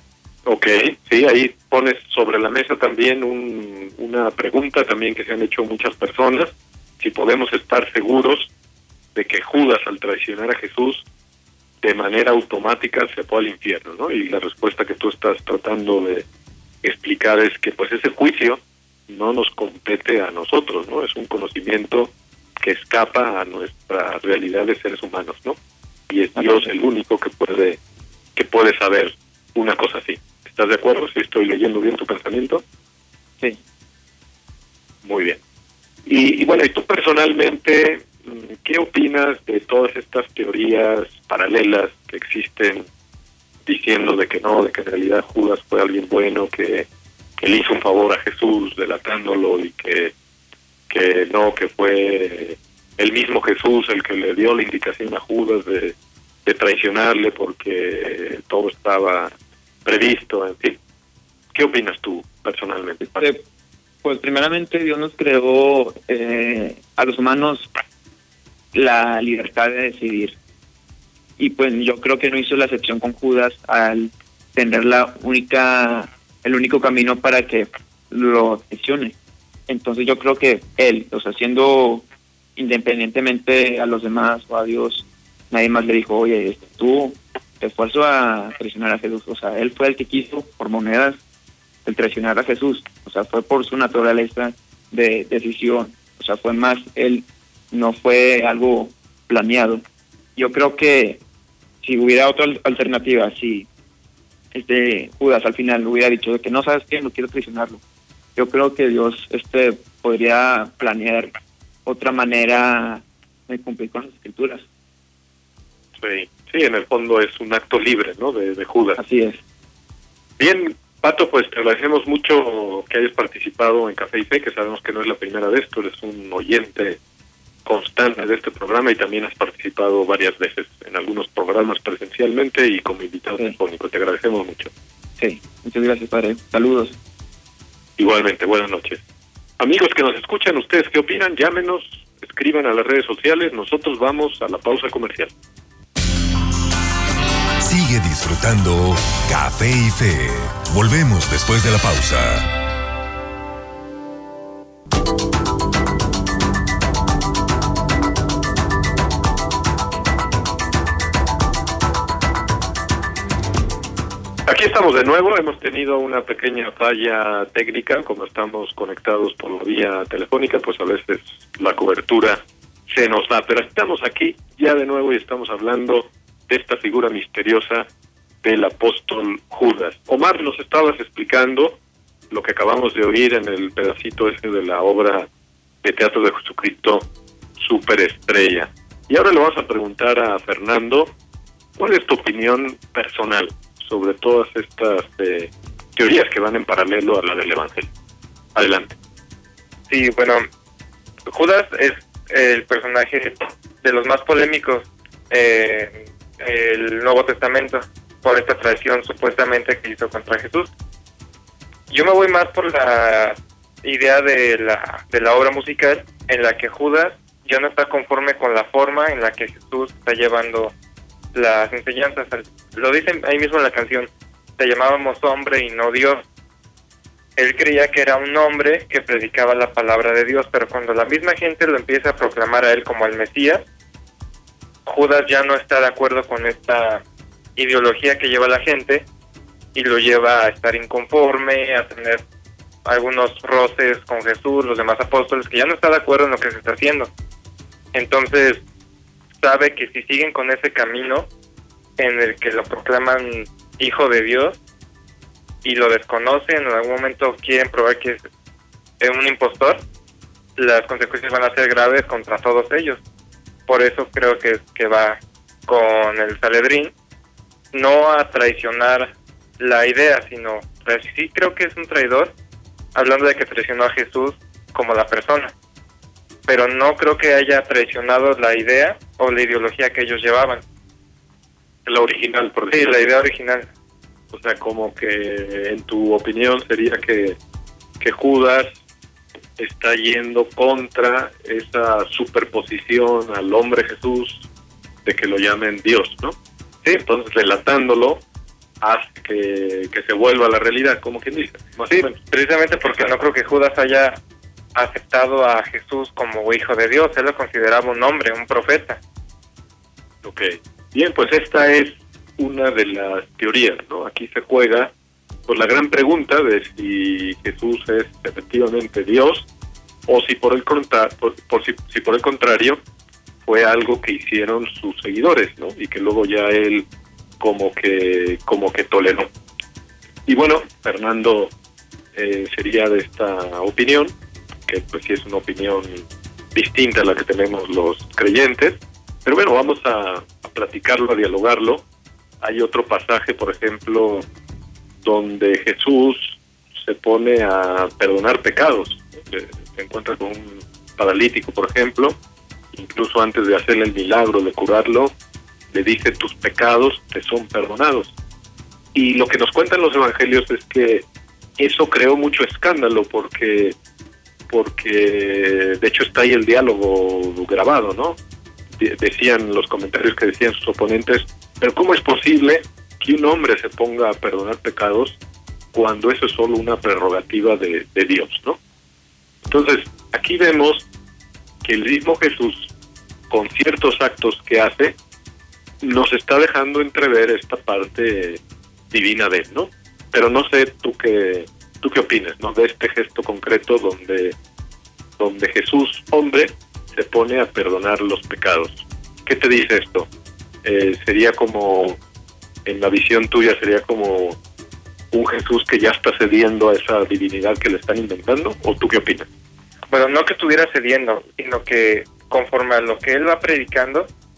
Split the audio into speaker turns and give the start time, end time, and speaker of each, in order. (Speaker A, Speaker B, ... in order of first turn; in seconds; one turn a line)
Speaker A: 0.5-8.5
Speaker A: 9.1-11.0
Speaker A: 11.8-16.2
Speaker A: 16.8-25.6
Speaker A: 26.1-27.8
Speaker B: 26.4-26.6
Speaker A: 28.3-32.6
Speaker A: 35.0-35.4
Speaker A: 36.0-42.9
Speaker A: 43.6-46.9
Speaker A: 47.4-50.1
Speaker A: 50.9-59.3
Speaker A: 59.8-60.8
Speaker A: 61.5-63.2
Speaker B: 63.0-63.4
Speaker B: 64.0-67.7
Speaker B: 68.7-70.4
Speaker B: 71.4-79.1
Speaker B: 79.7-82.0
Speaker B: 82.5-91.2
Speaker B: 91.8-99.8
Speaker B: 100.3-101.2
Speaker B: 101.8-103.7
Speaker B: 104.5-107.8
Speaker B: 108.3-111.3
Speaker B: 111.8-114.7
Speaker A: 116.0-119.0
Speaker B: 119.0-119.4
Speaker A: 120.4-127.0
Speaker A: 127.6-134.7
Speaker B: 135.2-136.9
Speaker A: 138.0-139.0
Speaker A: 139.6-145.3
Speaker C: 147.6-152.5
Speaker A: 164.4-177.9
Speaker A: 178.4-181.8
Speaker A: 182.3-185.3
Speaker A: 185.8-191.1
Speaker A: 191.8-197.9
Speaker A: 198.5-198.9
Speaker D: 199.9-200.4
Speaker D: 201.3-210.7
Speaker D: 211.9-220.7
Speaker D: 221.3-226.2
Speaker D: 227.4-233.6
Speaker D: 234.8-237.0
Speaker D: 237.6-239.1
Speaker D: 239.7-242.2
Speaker D: 242.8-247.1
Speaker D: 247.9-248.6
Speaker D: 249.4-251.3
Speaker D: 252.0-254.6
Speaker D: 255.6-258.2
Speaker D: 259.0-259.8
Speaker D: 260.6-263.0
Speaker D: 263.7-266.9
Speaker D: 267.7-272.3
Speaker D: 272.9-275.5
Speaker D: 276.5-280.6
Speaker A: 281.8-283.1
Speaker D: 282.7-283.7
Speaker A: 284.3-287.4
Speaker A: 288.0-288.7
Speaker A: 289.6-294.5
Speaker A: 295.0-298.2
Speaker A: 298.8-302.2
Speaker D: 301.9-304.2
Speaker D: 304.7-309.0
Speaker A: 310.2-314.9
Speaker A: 315.5-319.5
Speaker A: 320.1-322.8
Speaker A: 323.4-326.9
Speaker A: 327.4-329.3
Speaker A: 330.2-331.5
Speaker A: 332.1-334.1
Speaker A: 334.7-341.8
Speaker A: 342.4-344.3
Speaker A: 345.0-352.2
Speaker A: 352.7-355.1
Speaker A: 355.7-358.1
Speaker A: 358.9-361.0
Speaker A: 361.6-363.8
Speaker A: 364.5-368.2
Speaker A: 368.8-375.2
Speaker A: 375.7-378.6
Speaker A: 379.5-380.9
Speaker A: 381.6-382.7
Speaker A: 383.3-384.9
Speaker A: 385.8-394.4
Speaker A: 395.2-400.1
Speaker A: 400.6-402.0
Speaker A: 402.6-404.4
Speaker A: 405.1-409.3
Speaker D: 409.9-414.1